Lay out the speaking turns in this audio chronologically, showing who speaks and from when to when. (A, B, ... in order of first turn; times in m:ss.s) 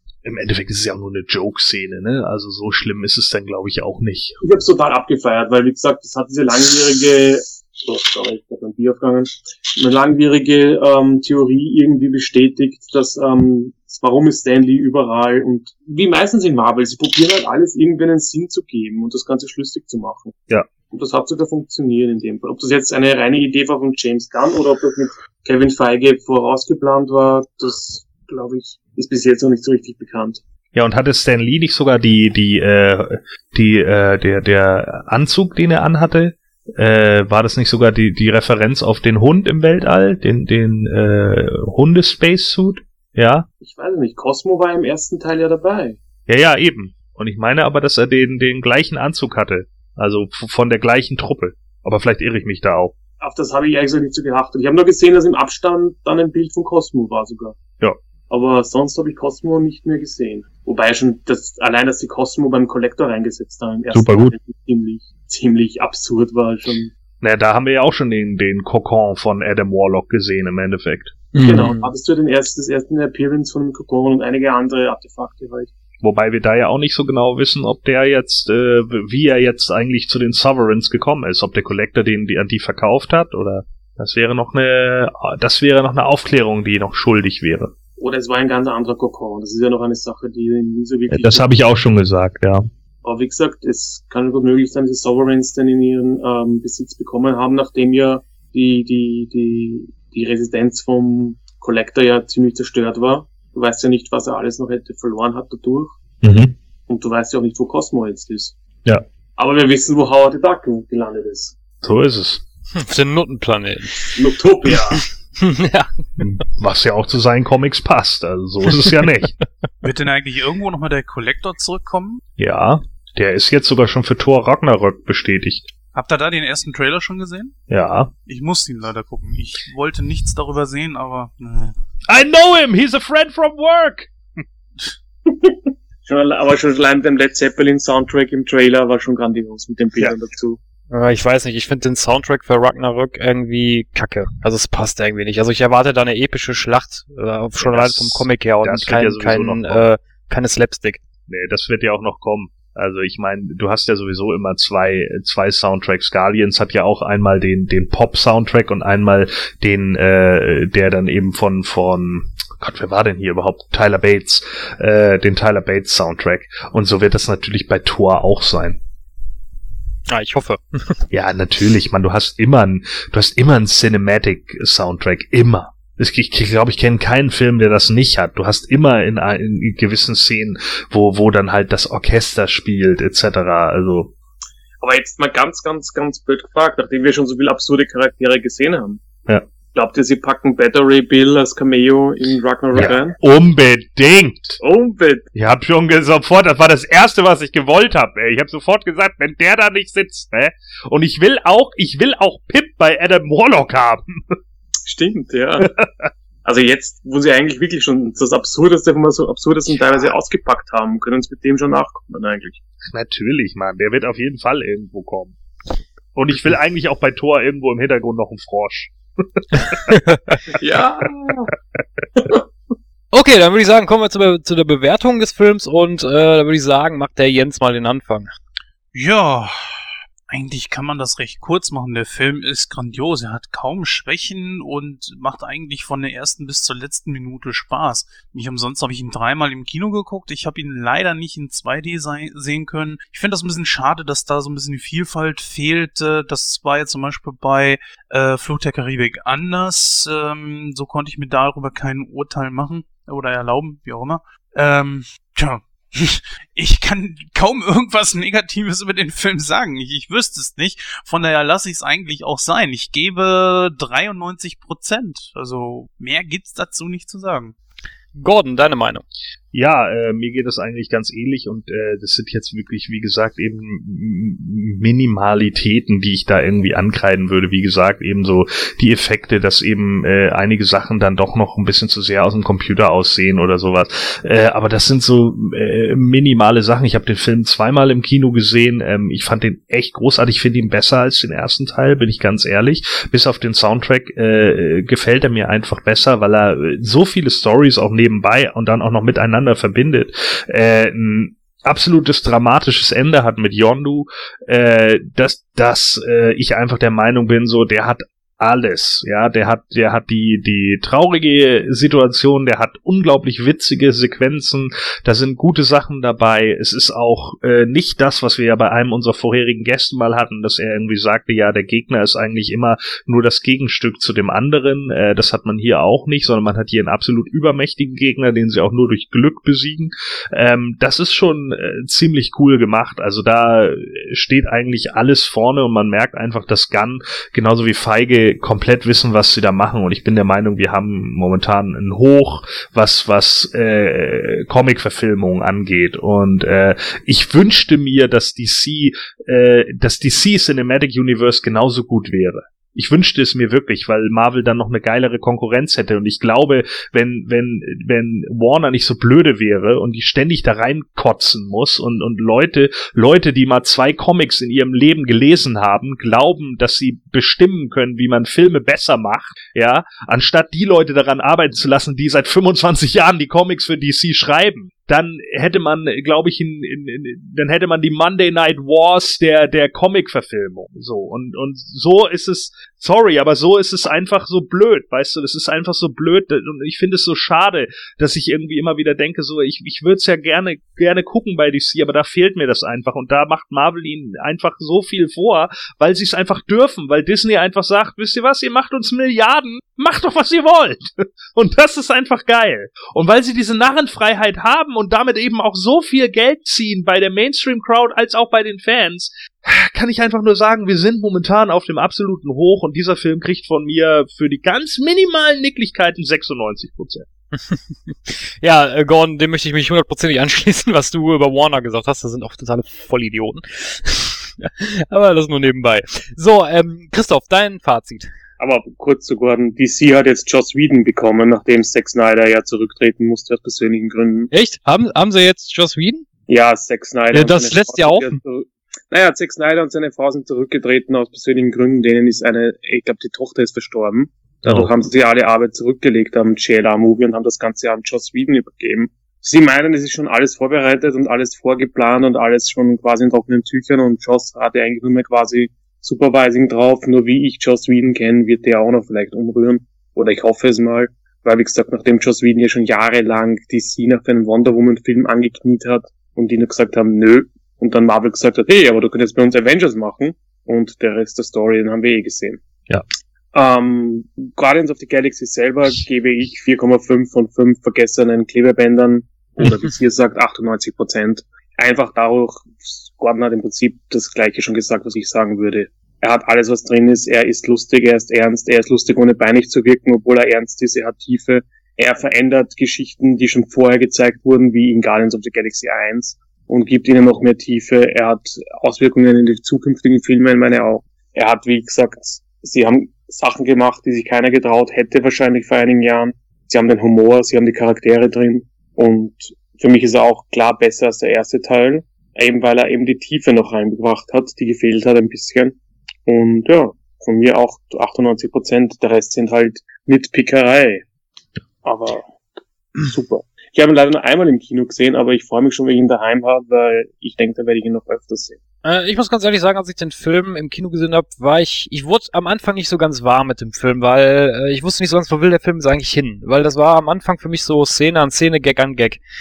0:00.2-0:04.4 A
0:04.4-0:20.3 B
0:20.9-0:30.4 B
0:30.7-0:43.5 A
0:43.6-0:46.0 B
0:46.3-0:52.9 A
0:53.2-0:57.6 B
0:58.3-1:06.9 B
1:03.9-1:04.4 A
1:07.2-1:11.6 A
1:11.3-1:11.9 C
1:11.3-1:15.7 B
1:16.0-1:27.7 A
1:28.0-1:31.5 B
1:31.1-1:32.7 A
1:33.0-1:46.0 B
1:46.2-1:46.5 A
1:46.9-1:48.6 B
1:49.4-1:51.6 B
1:51.8-1:52.4 A
1:52.8-1:54.1 C
1:54.1-1:55.0 B
1:55.4-1:55.9 C
1:56.2-1:59.3 A
1:59.8-2:02.2 D
2:02.4-2:05.7 A
2:05.9-2:07.5 D
2:07.7-2:08.1 A
2:08.2-2:11.7 D
2:12.1-2:14.1 A
2:15.2-2:20.6 B
2:20.9-2:31.0 C
2:27.6-2:29.9 A
2:31.3-2:48.8 A
2:50.1-2:51.0 C
2:51.1-3:04.1 A
3:04.8-3:09.0 B
3:09.7-3:13.2 B
3:12.7-3:14.6 A
3:14.6-3:15.2 B
3:15.3-3:24.4 A
3:24.8-3:25.7 B
3:25.6-3:26.1 A
3:26.4-3:32.6 B
3:32.9-3:35.4 A
3:36.1-3:39.9 A
3:39.9-3:40.2 C
3:40.5-3:41.5 B
3:42.2-3:42.4 B
3:43.1-3:48.3 C
3:48.9-3:49.8 D
3:50.3-4:27.5 D
4:28.1-4:29.0 C
4:29.5-6:57.1 A
6:57.3-7:08.1 C
7:08.4-7:14.3 B
7:14.3-7:16.0 C
7:16.3-7:52.4 B
7:17.1-7:18.2 C
7:53.3-8:40.8 B
8:41.6-8:42.0 B
8:42.8-8:48.4 B
8:48.6-8:59.0 C